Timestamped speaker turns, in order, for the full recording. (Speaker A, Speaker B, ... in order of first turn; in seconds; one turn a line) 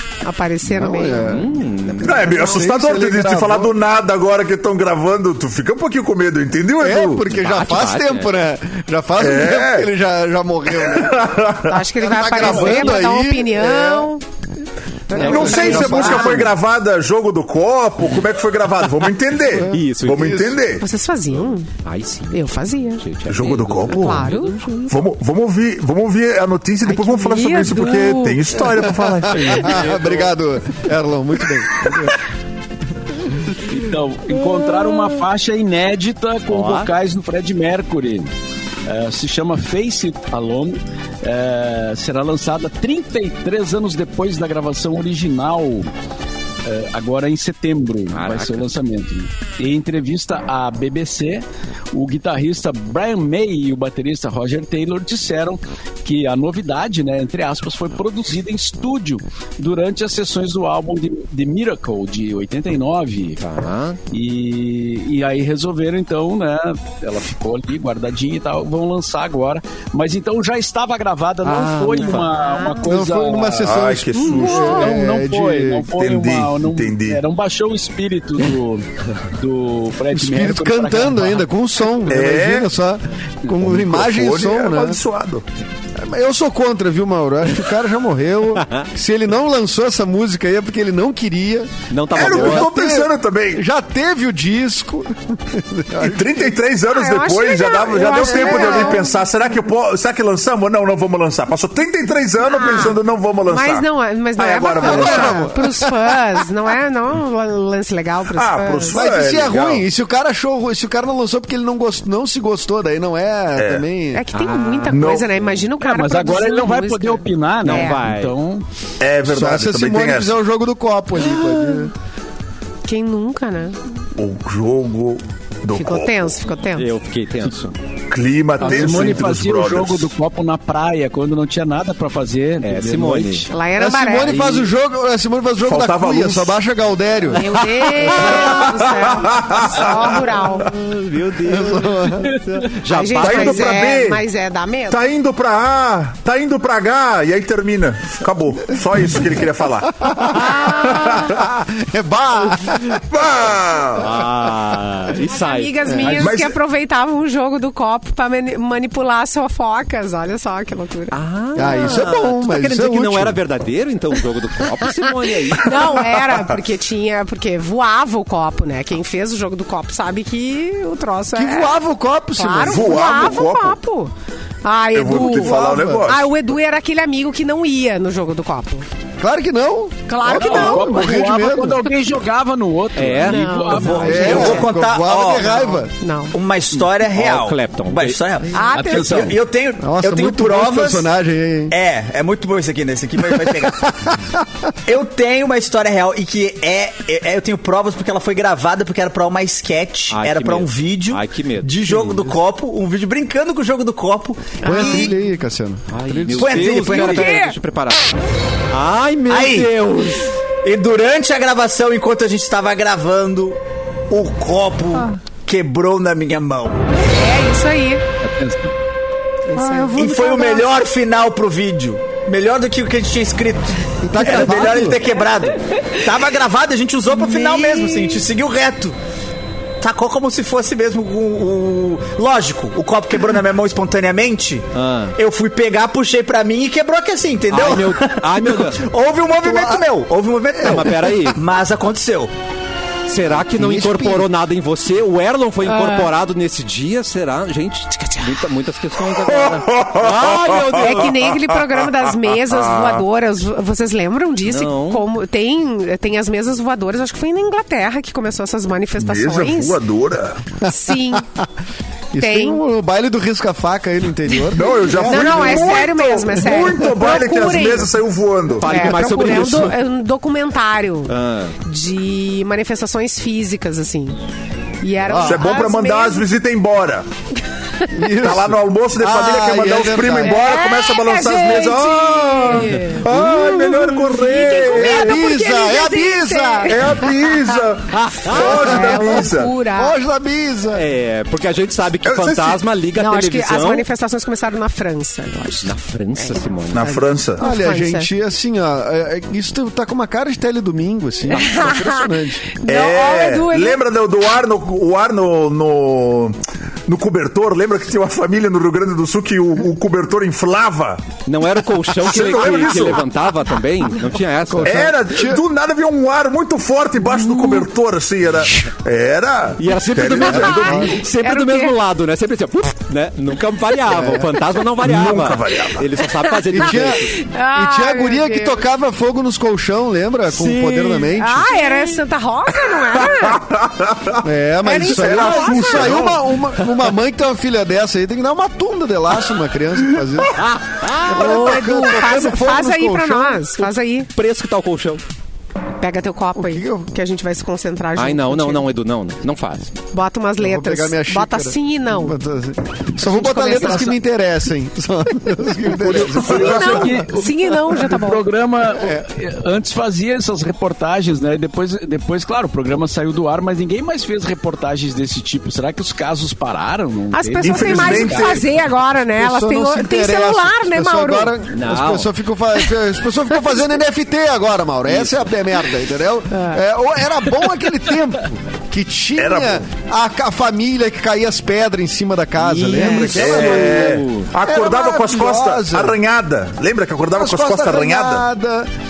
Speaker A: 0.2-1.3
Speaker B: 0.6-3.7
Speaker C: 1.2-2.3
Speaker D: 2.0-7.2
Speaker B: 6.8-11.4
Speaker C: 7.3-8.3
Speaker D: 9.2-9.9
Speaker D: 10.8-11.8
Speaker A: 11.6-14.2
Speaker B: 12.0-14.1
Speaker A: 15.1-16.4
Speaker B: 15.1-16.5
Speaker D: 15.2-20.9
Speaker B: 19.6-20.5
Speaker C: 19.7-20.5
Speaker A: 20.8-21.7
Speaker C: 21.8-24.9
Speaker A: 22.3-23.0
Speaker D: 23.3-24.3
Speaker A: 23.9-24.9
Speaker D: 24.9-29.8
Speaker A: 26.9-28.5
Speaker B: 28.6-32.2
Speaker C: 29.6-30.3
Speaker E: 33.6-38.3
Speaker C: 36.5-36.9
Speaker E: 38.9-45.9
Speaker E: 46.6-63.4
Speaker C: 48.1-48.7
Speaker C: 63.4-64.0
Speaker E: 64.1-81.5
Speaker C: 71.5-72.3
Speaker A: 72.2-72.8
Speaker B: 72.8-75.9
Speaker D: 73.6-74.9
Speaker A: 74.2-74.9
Speaker D: 76.0-77.2
Speaker B: 80.1-85.0
Speaker D: 82.1-82.7
Speaker D: 83.6-85.4
Speaker B: 86.0-96.5
Speaker C: 88.6-88.9
Speaker C: 91.9-92.7
Speaker D: 92.1-93.6
Speaker D: 96.0-105.5
Speaker A: 96.9-99.2
Speaker B: 98.2-99.0
Speaker A: 102.4-109.1
Speaker B: 104.8-106.2
Speaker D: 108.3-109.8
Speaker B: 108.9-114.2
Speaker D: 113.6-113.8
Speaker A: 114.1-118.0
Speaker C: 114.3-115.3
Speaker D: 114.9-115.3
Speaker E: 115.8-118.7
Speaker C: 117.6-118.3
Speaker D: 119.0-120.3
Speaker B: 119.3-121.9
Speaker A: 122.8-123.8
Speaker D: 124.2-126.2
Speaker A: 125.7-126.9
Speaker C: 126.8-127.8
Speaker D: 128.1-130.1
Speaker E: 128.6-133.5
Speaker C: 132.6-133.5
Speaker A: 133.5-134.5
Speaker B: 133.8-138.6
Speaker C: 134.3-134.7
Speaker D: 135.7-136.6
Speaker A: 137.3-140.7
Speaker C: 138.0-138.4
Speaker D: 138.4-140.3
Speaker C: 140.6-143.8
Speaker B: 141.4-142.4
Speaker A: 142.9-145.0
Speaker D: 143.2-144.2
Speaker D: 144.9-151.3
Speaker B: 150.0-153.0
Speaker D: 153.1-154.1
Speaker C: 154.0-155.9
Speaker A: 155.3-161.2
Speaker B: 155.9-156.2
Speaker D: 156.1-156.6
Speaker C: 161.1-166.1
Speaker B: 161.6-163.4
Speaker A: 165.0-171.8
Speaker B: 171.3-173.1
Speaker A: 172.4-174.1
Speaker D: 172.6-173.8
Speaker A: 174.6-178.9
Speaker D: 174.9-176.3
Speaker B: 175.1-176.1
Speaker B: 179.2-181.9
Speaker A: 180.1-181.1
Speaker E: 180.3-184.5
Speaker C: 183.0-184.7
Speaker A: 183.2-184.7
Speaker F: 184.0-185.8
Speaker B: 184.0-185.9
Speaker A: 185.4-186.4
Speaker F: 186.3-191.1
Speaker C: 186.8-188.2
Speaker A: 188.5-189.3
Speaker E: 188.7-189.4
Speaker B: 189.8-191.8
Speaker F: 191.7-193.9
Speaker B: 193.3-194.7
Speaker F: 194.9-205.2
Speaker C: 200.1-202.4
Speaker A: 204.6-205.1
Speaker B: 204.6-206.8
Speaker C: 205.9-208.1
Speaker F: 206.3-207.4
Speaker A: 206.8-207.6
Speaker C: 208.7-210.3
Speaker F: 209.3-209.7
Speaker F: 210.6-213.6
Speaker F: 214.1-216.8
Speaker A: 217.1-218.0
Speaker E: 218.2-218.7
Speaker A: 219.5-220.0
Speaker B: 219.5-220.7
Speaker F: 219.9-229.0
Speaker B: 224.0-225.0
Speaker C: 227.6-227.9
Speaker F: 229.8-242.3
Speaker C: 234.8-235.2
Speaker C: 237.5-238.8
Speaker B: 239.4-239.9
Speaker B: 240.5-241.1
Speaker C: 240.6-241.4
Speaker C: 243.1-251.2
Speaker B: 243.2-244.3
Speaker A: 245.6-246.1
Speaker A: 248.0-248.3
Speaker D: 249.3-251.0
Speaker A: 250.8-259.8
Speaker D: 252.5-253.0
Speaker C: 254.4-255.0
Speaker D: 259.0-260.4
Speaker A: 260.6-261.2
Speaker B: 260.9-261.5
Speaker B: 262.1-265.8
Speaker A: 262.2-262.6
Speaker D: 264.5-268.7
Speaker A: 265.0-267.9
Speaker C: 268.6-269.8
Speaker A: 268.6-274.2
Speaker C: 271.1-271.6
Speaker A: 274.8-276.3
Speaker B: 275.0-275.4
Speaker D: 275.2-277.1
Speaker B: 277.9-280.4
Speaker D: 278.2-285.2
Speaker A: 280.2-283.1
Speaker C: 283.1-283.7
Speaker B: 283.1-283.4
Speaker A: 284.1-287.6
Speaker B: 284.7-287.0
Speaker D: 286.7-289.5
Speaker C: 287.9-288.8
Speaker B: 288.4-289.1
Speaker A: 288.4-289.9
Speaker B: 289.7-290.9
Speaker C: 290.7-293.9
Speaker D: 292.0-292.6
Speaker A: 293.0-298.1
Speaker C: 295.6-297.0
Speaker D: 296.7-297.4
Speaker B: 297.4-302.5
Speaker A: 301.3-303.8
Speaker C: 301.3-301.9
Speaker D: 302.6-311.0
Speaker C: 311.2-314.9
Speaker D: 312.0-313.0
Speaker B: 314.5-315.4
Speaker D: 314.6-320.9
Speaker C: 319.6-327.1
Speaker B: 320.2-321.0
Speaker A: 320.5-321.8
Speaker B: 323.9-324.4
Speaker D: 324.8-325.9
Speaker A: 326.3-328.6
Speaker B: 326.5-331.5
Speaker C: 330.3-331.8
Speaker A: 331.1-333.5
Speaker D: 333.0-334.2
Speaker B: 334.2-340.4
Speaker A: 334.6-336.0
Speaker D: 334.9-336.2
Speaker C: 340.4-341.8
Speaker B: 341.0-343.6
Speaker A: 341.1-344.1
Speaker C: 344.1-345.0
Speaker A: 345.8-348.7
Speaker B: 346.4-346.9
Speaker C: 348.0-349.7
Speaker A: 349.9-352.2
Speaker B: 350.4-357.1
Speaker A: 353.0-354.0
Speaker E: 356.1-368.4
Speaker D: 356.1-356.6
Speaker A: 356.2-358.2
Speaker B: 358.7-359.1
Speaker A: 367.1-371.3
Speaker D: 367.4-368.5
Speaker B: 369.2-386.0
Speaker C: 371.5-372.1
Speaker C: 374.9-375.2
Speaker A: 376.3-376.6
Speaker D: 379.2-379.6
Speaker C: 382.4-384.3
Speaker D: 382.9-388.2
Speaker B: 387.1-388.7